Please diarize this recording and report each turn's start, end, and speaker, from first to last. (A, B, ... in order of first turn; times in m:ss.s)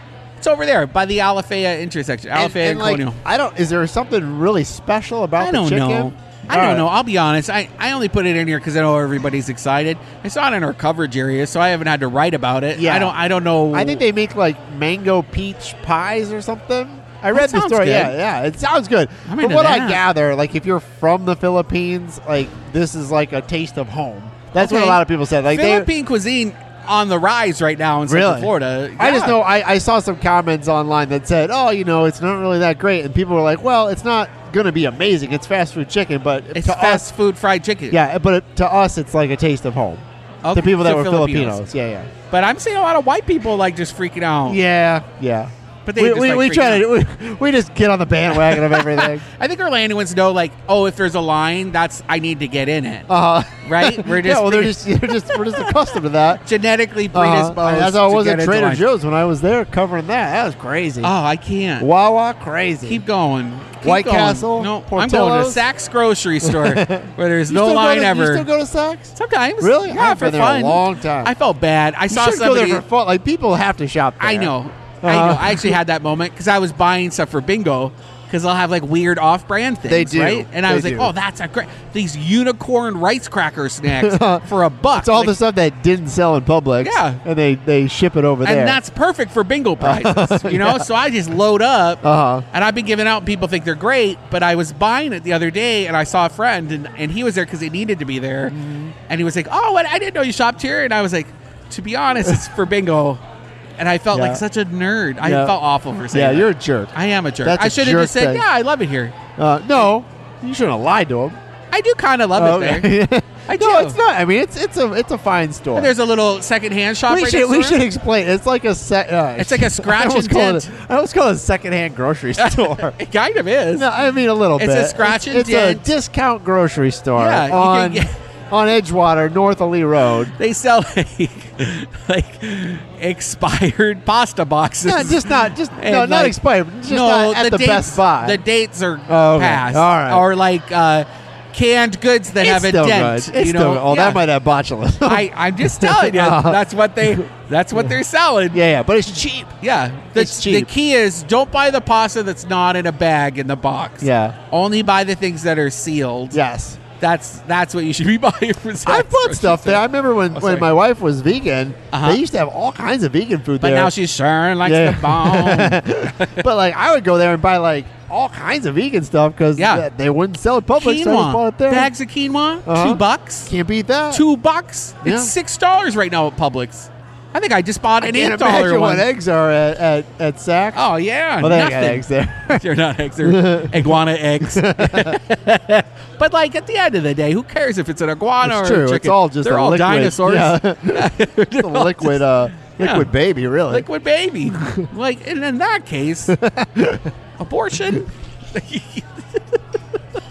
0:00.4-0:03.2 A
0:02.3-0:06.8 B
0:05.4-0:14.0 A
0:12.8-0:13.2 B
0:13.7-0:25.9 B
0:17.3-0:18.1 A
0:19.3-0:20.0 A
0:24.6-0:29.4 A
0:28.1-0:37.1 B
0:36.5-0:38.0 A
0:37.9-0:42.1 B
0:40.4-0:41.6 A
0:42.3-0:44.6 A
0:44.4-0:49.2 B
0:45.8-0:46.9 A
0:48.3-0:53.1 A
0:53.1-0:56.4 B
0:53.6-0:55.8 A
0:56.4-0:58.8 A
0:57.1-1:01.1 B
1:01.0-1:01.9 A
1:01.8-1:03.0 B
1:02.8-1:08.5 A
1:03.8-1:05.6 B
1:06.4-1:11.3 B
1:09.1-1:12.8 A
1:12.1-1:15.8 B
1:14.2-1:25.3 A
1:19.9-1:21.1 B
1:24.0-1:28.8 B
1:26.8-1:27.2 A
1:28.4-1:38.5 A
1:29.8-1:30.8 B
1:32.0-1:32.4 B
1:38.5-1:38.9 B
1:39.1-1:43.2 A
1:43.8-1:49.2 A
1:44.1-1:44.4 B
1:45.2-1:45.5 B
1:46.1-1:46.9 B
1:47.4-1:48.4 B
1:49.4-1:51.4 B
1:51.7-1:53.0 A
1:52.4-1:55.9 B
1:53.5-1:54.0 A
1:55.7-1:57.8 A
1:57.1-2:03.0 B
1:59.4-2:00.7 A
2:02.4-2:03.9 A
2:03.8-2:10.3 B
2:04.6-2:05.9 A
2:07.1-2:08.1 A
2:10.4-2:24.2 A
2:14.8-2:18.4 B
2:19.1-2:20.2 B
2:22.4-2:27.2 B
2:25.0-2:28.6 A
2:28.5-2:29.5 B
2:29.6-2:36.4 A
2:30.1-2:30.7 B
2:34.0-2:34.4 B
2:36.3-2:36.8 B
2:37.0-2:40.7 A
2:38.8-2:43.9 B
2:41.9-2:42.2 A
2:43.6-2:46.3 A
2:44.6-2:51.9 B
2:49.6-2:49.8 A
2:50.8-2:53.5 A
2:52.6-2:54.2 B
2:54.1-2:59.0 A
2:55.0-2:55.3 B
2:58.0-3:00.8 B
3:00.8-3:13.1 A
3:01.4-3:02.6 B
3:03.2-3:03.9 B
3:04.4-3:05.2 B
3:08.4-3:13.8 B
3:13.7-3:16.3 A
3:14.6-3:14.8 B
3:16.3-3:17.1 B
3:17.4-3:19.6 A